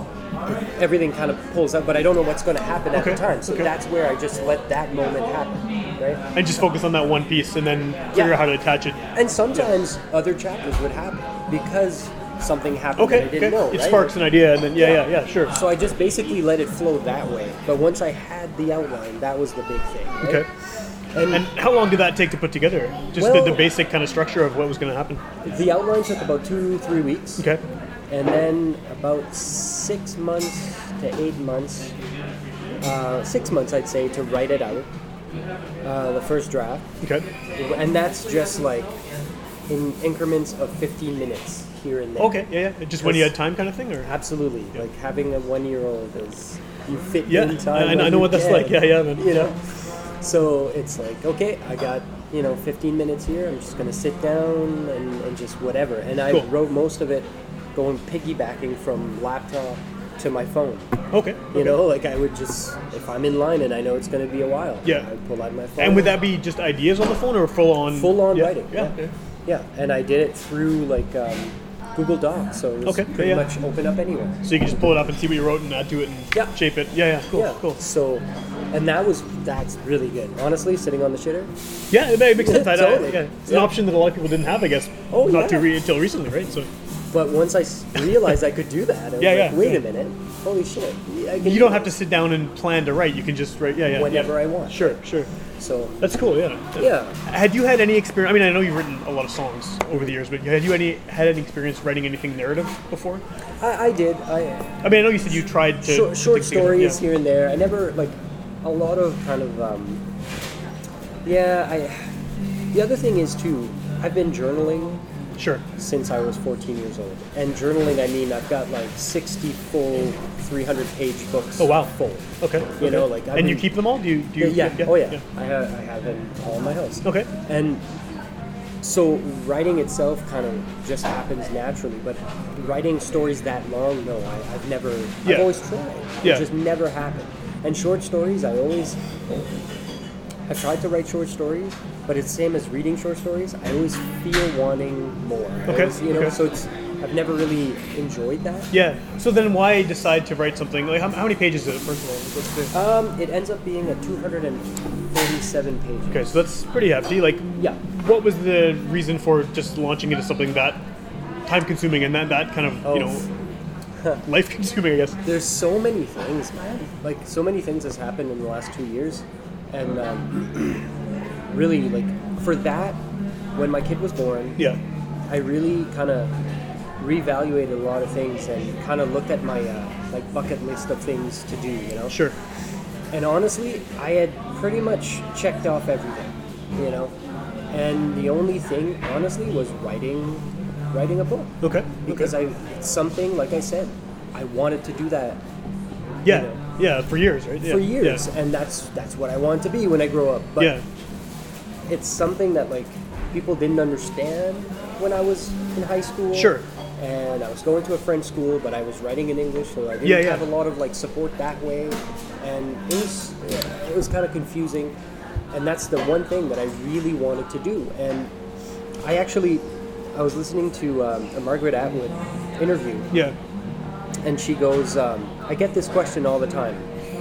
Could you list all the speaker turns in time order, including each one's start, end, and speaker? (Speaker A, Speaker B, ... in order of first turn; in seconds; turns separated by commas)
Speaker A: 0.5-6.2, Speaker B: 2.9-3.7, Speaker B: 6.3-9.7, Speaker A: 8.1-8.4, Speaker A: 9.1-14.2, Speaker B: 13.0-15.6, Speaker A: 14.8-20.4, Speaker A: 21.1-21.5, Speaker B: 21.3-25.2, Speaker A: 23.2-23.6, Speaker A: 25.4-27.5, Speaker A: 28.1-31.9, Speaker A: 32.8-34.9, Speaker A: 35.8-36.9, Speaker B: 37.0-37.3, Speaker A: 37.5-38.9, Speaker A: 39.7-42.5, Speaker B: 42.2-44.1, Speaker A: 43.0-43.4, Speaker A: 44.0-49.6, Speaker B: 47.3-49.5, Speaker A: 50.2-61.0, Speaker B: 61.1-61.8, Speaker A: 61.5-66.2, Speaker B: 65.8-69.1, Speaker A: 67.9-68.9, Speaker A: 69.5-74.4, Speaker B: 72.8-73.5, Speaker B: 74.4-77.8, Speaker A: 76.3-76.6, Speaker A: 77.3-81.5, Speaker B: 81.9-86.7, Speaker A: 82.4-83.8, Speaker A: 85.1-85.7, Speaker A: 87.1-92.0, Speaker B: 89.2-89.8, Speaker B: 91.4-95.3, Speaker A: 93.9-95.0, Speaker A: 95.6-96.0, Speaker B: 96.0-103.2, Speaker A: 96.8-97.2, Speaker A: 103.6-104.8, Speaker B: 104.8-107.0, Speaker A: 105.8-110.0, Speaker A: 111.2-112.1, Speaker A: 112.7-115.0, Speaker B: 115.4-115.6, Speaker A: 115.8-123.7, Speaker B: 121.6-125.2, Speaker A: 124.4-127.8, Speaker B: 127.0-127.3, Speaker A: 128.8-139.0, Speaker B: 135.2-135.5, Speaker B: 136.2-136.5, Speaker A: 140.5-148.7, Speaker B: 145.7-146.4, Speaker B: 148.7-152.8, Speaker A: 152.7-156.3, Speaker B: 156.1-160.8, Speaker B: 161.5-163.3, Speaker A: 162.8-163.3, Speaker B: 164.2-165.2, Speaker A: 165.2-170.9, Speaker A: 171.5-173.0, Speaker A: 173.5-174.6, Speaker A: 175.3-176.3, Speaker A: 177.0-182.2, Speaker B: 182.1-182.4, Speaker A: 183.1-187.2, Speaker A: 187.7-195.4, Speaker B: 191.6-192.3, Speaker A: 196.2-196.6, Speaker B: 196.2-198.2, Speaker A: 197.6-200.8, Speaker B: 200.6-200.8, Speaker A: 201.9-215.0, Speaker B: 206.3-206.7, Speaker B: 210.0-210.5, Speaker A: 215.5-218.3, Speaker A: 219.0-223.1, Speaker A: 224.2-226.9